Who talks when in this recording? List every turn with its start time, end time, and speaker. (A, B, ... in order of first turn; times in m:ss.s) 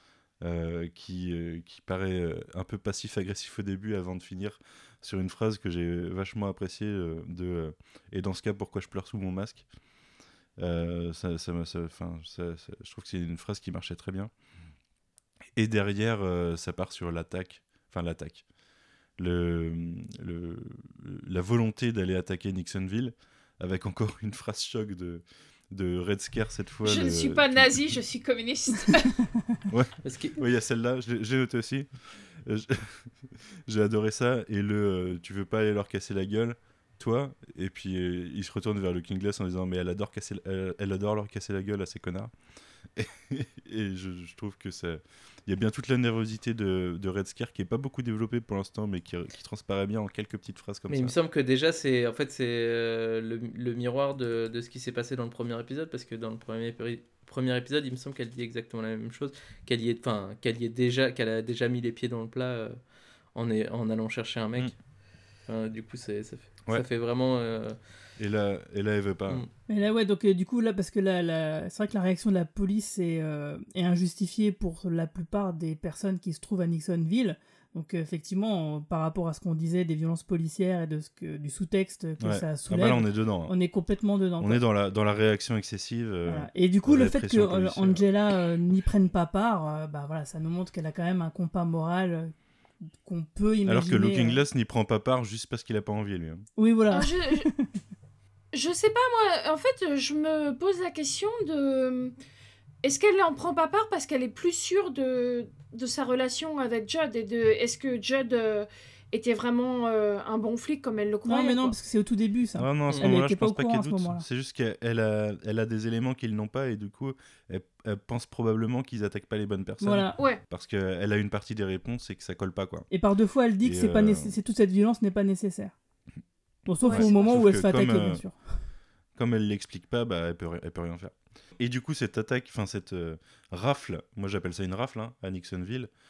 0:00.4-0:09.7 A
0:10.6-0:14.3 A
0:15.6-0:18.4 A
0:19.2-0:28.0 A
0:26.8-0:29.2 B
0:29.7-0:42.3 A
0:30.0-0:30.4 C
0:43.0-0:51.1 A
0:50.9-1:02.8 C
1:03.3-1:04.8 C
1:05.5-1:07.8 C
1:08.2-1:09.4 A
1:09.7-1:24.6 D
1:22.2-1:23.6 A
1:24.4-1:28.0 A
1:26.3-1:32.3 D
1:33.0-1:34.4 D
1:33.6-1:36.5 A
1:36.6-1:37.7 D
1:36.9-1:37.5 B
1:38.5-1:42.1 B
1:42.8-1:51.8 B
1:51.3-1:54.2 D
1:52.6-2:02.9 A
1:59.8-2:00.1 D
2:02.9-2:05.7 D
2:03.6-2:04.3 A
2:06.7-2:08.4 D
2:06.8-2:07.1 B
2:06.8-2:08.2 A
2:09.2-2:15.9 A